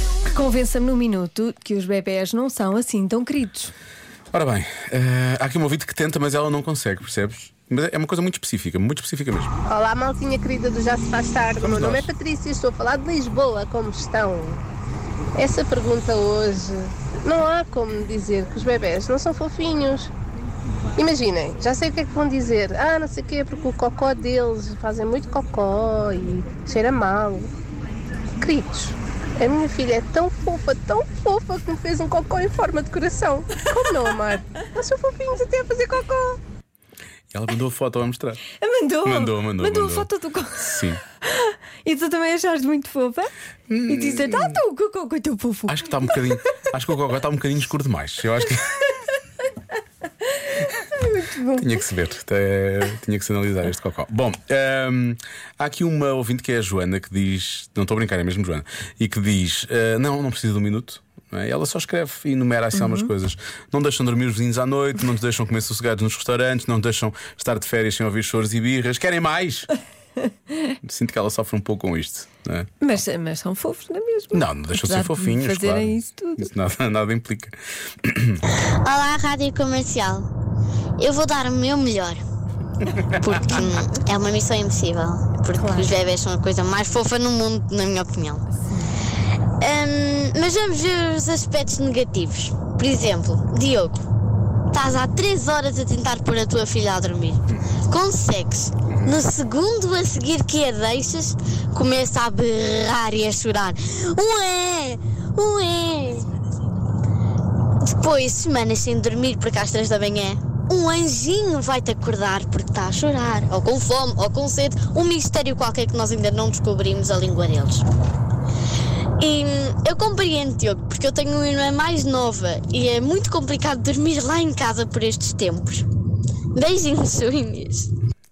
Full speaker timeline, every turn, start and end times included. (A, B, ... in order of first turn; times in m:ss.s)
0:00.3-0:03.7 A
0:04.3-0:09.5 B
0:09.7-0:14.6 C
0:11.6-0:12.1 B
0:15.3-0:20.1 C
0:21.0-0:27.5 C
0:28.4-0:36.4 C
0:37.3-0:38.4 B
0:38.6-0:43.3 A
0:39.0-0:41.0 B
0:43.7-0:44.6 B
0:43.9-0:46.6 A
0:45.7-0:48.9 B
0:50.4-0:51.7 A
0:51.6-1:09.7 B
1:02.7-1:03.1 A
1:10.8-1:12.7 B
1:12.8-1:16.5 A
1:14.3-1:18.4 B
1:18.6-1:20.3 D
1:21.0-1:22.2 D
1:23.2-1:28.5 D
1:25.6-1:26.0 A
1:28.5-1:29.0 A
1:29.6-1:34.0 D
1:34.7-1:46.3 D
1:38.9-1:39.2 B
1:47.8-1:57.8 D
1:59.2-2:05.9 D
2:06.5-2:07.9 D